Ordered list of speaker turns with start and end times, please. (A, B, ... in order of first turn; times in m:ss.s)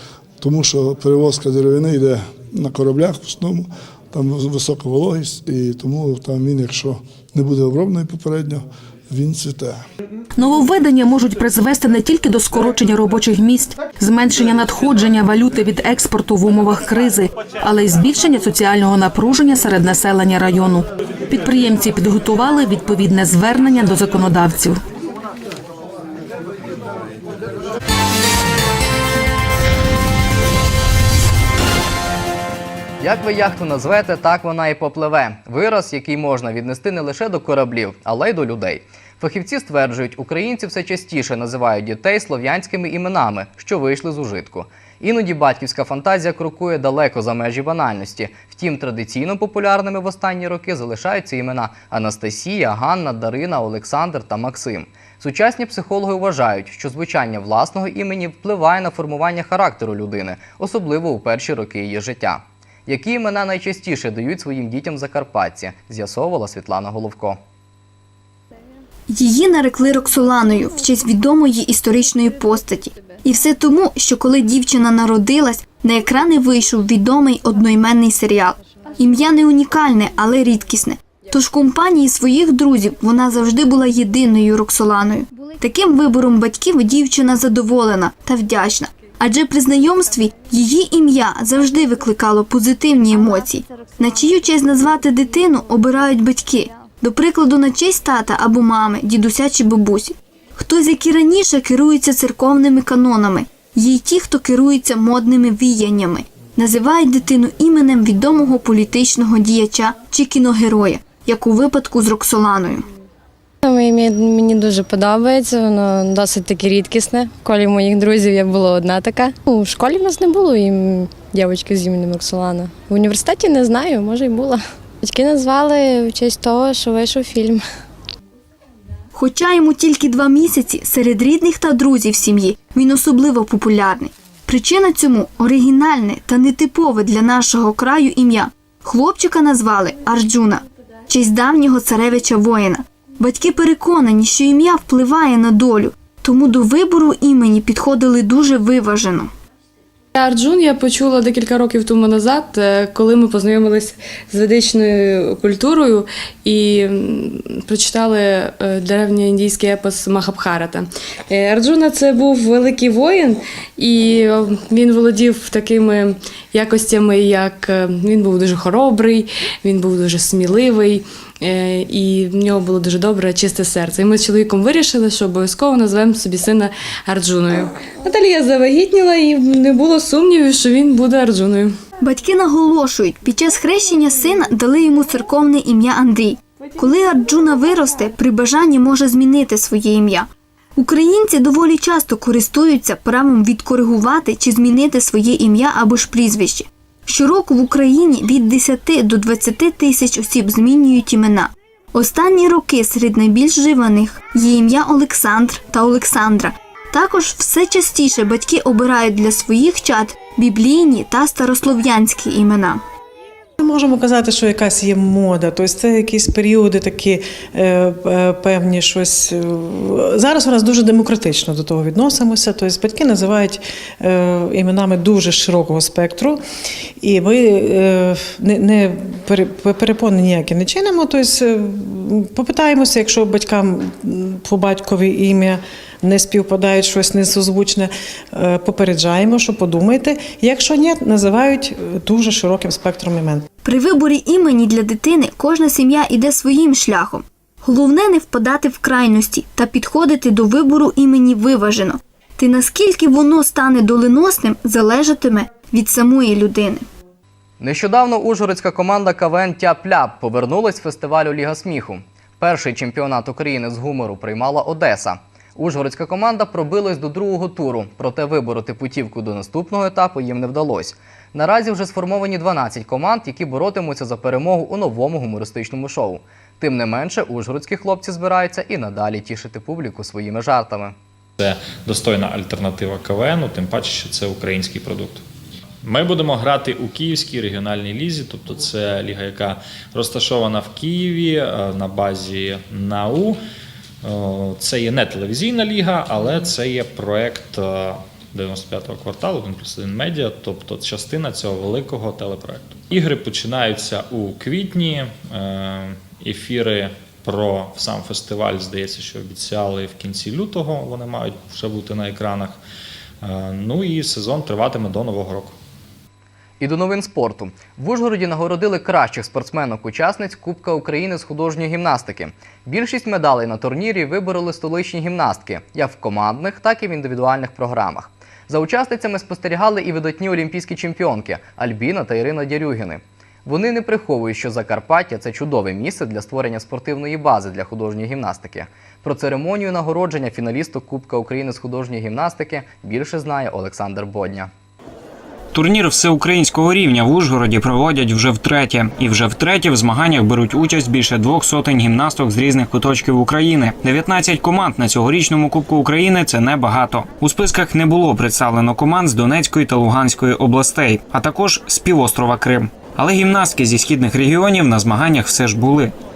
0:00.4-0:09.8 A
0:10.4-0:24.8 B
0:33.0-1:07.4 C
1:09.1-1:52.8 D
1:53.6-2:07.6 E
2:09.1-2:29.3 D
2:30.1-3:01.7 F
3:02.0-3:32.8 D
3:33.6-3:46.4 G
3:47.0-4:03.4 G
4:03.6-4:16.8 D
4:17.6-4:40.9 C
4:41.4-4:45.2 H
4:45.8-4:53.4 H
4:54.0-5:12.6 H
5:13.2-5:15.5 H
5:16.6-5:44.5 C
5:45.5-6:05.9 I